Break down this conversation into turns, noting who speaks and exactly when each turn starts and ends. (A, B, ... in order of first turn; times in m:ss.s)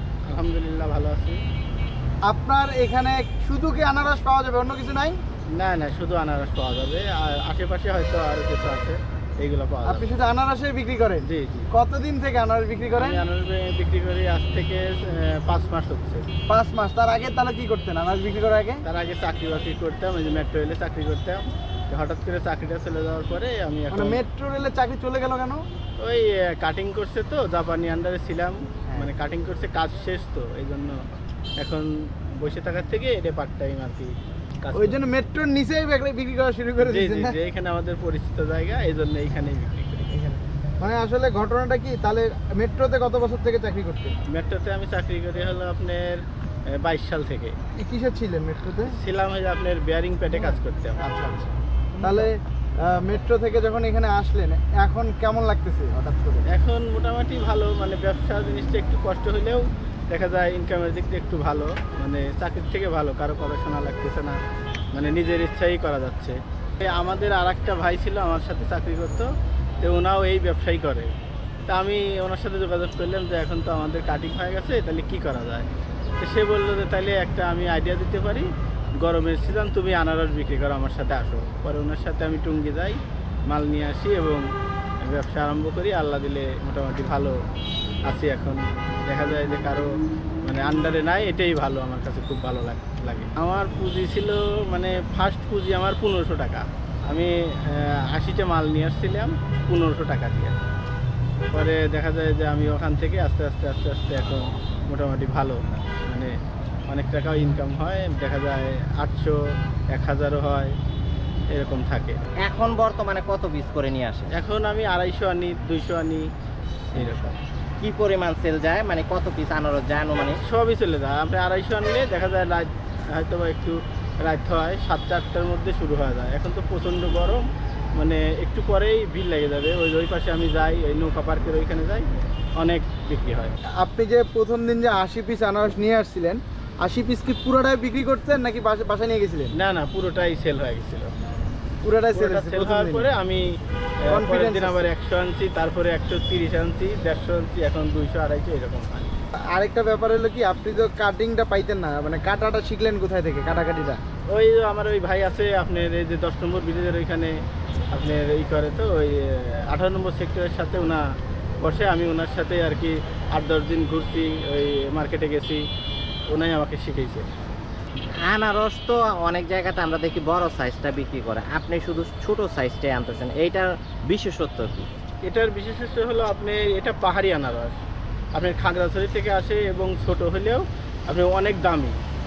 0:00.3-0:01.4 A
0:02.2-0:05.2 B
0:05.5-0:10.1 A
0:09.8-0:13.2 B
0:11.2-0:11.7 A
0:13.0-0:16.2 A
0:16.5-0:18.8 B
0:18.8-0:24.2 A
0:23.9-0:25.6 B
0:26.0-0:35.0 A
0:34.7-0:37.4 B
0:36.8-0:40.2 A
0:40.1-0:44.2 B
0:44.3-0:47.6 A
0:47.8-0:49.0 B
0:48.8-0:51.0 A
0:50.3-0:56.4 B
0:56.5-1:04.4 A
1:04.9-1:09.3 A
1:09.8-1:11.1 A
1:11.7-1:15.7 A
1:16.2-1:18.5 A
1:19.0-1:24.5 A
1:25.0-1:27.4 A
1:28.0-1:40.6 A
1:41.5-1:46.3 A
1:46.9-1:49.4 A
1:49.9-1:50.7 A
1:51.5-1:52.2 A
1:52.4-1:54.3 C
1:54.3-1:56.3 A
1:56.9-1:57.4 A
1:56.9-1:57.2 C
1:57.8-2:00.4 C
2:00.4-2:13.5 A
2:13.8-2:19.5 B
2:19.5-2:21.1 A
2:21.8-2:23.1 B
2:22.1-2:23.5 A
2:24.0-2:29.1 A
2:24.1-2:24.9 B
2:29.5-2:34.0 B
2:34.3-2:37.3 A
2:37.9-2:41.0 A
2:41.6-2:45.6 A
2:46.3-2:47.2 A
2:48.2-2:54.9 C
2:55.2-2:57.8 A
2:58.3-3:02.0 A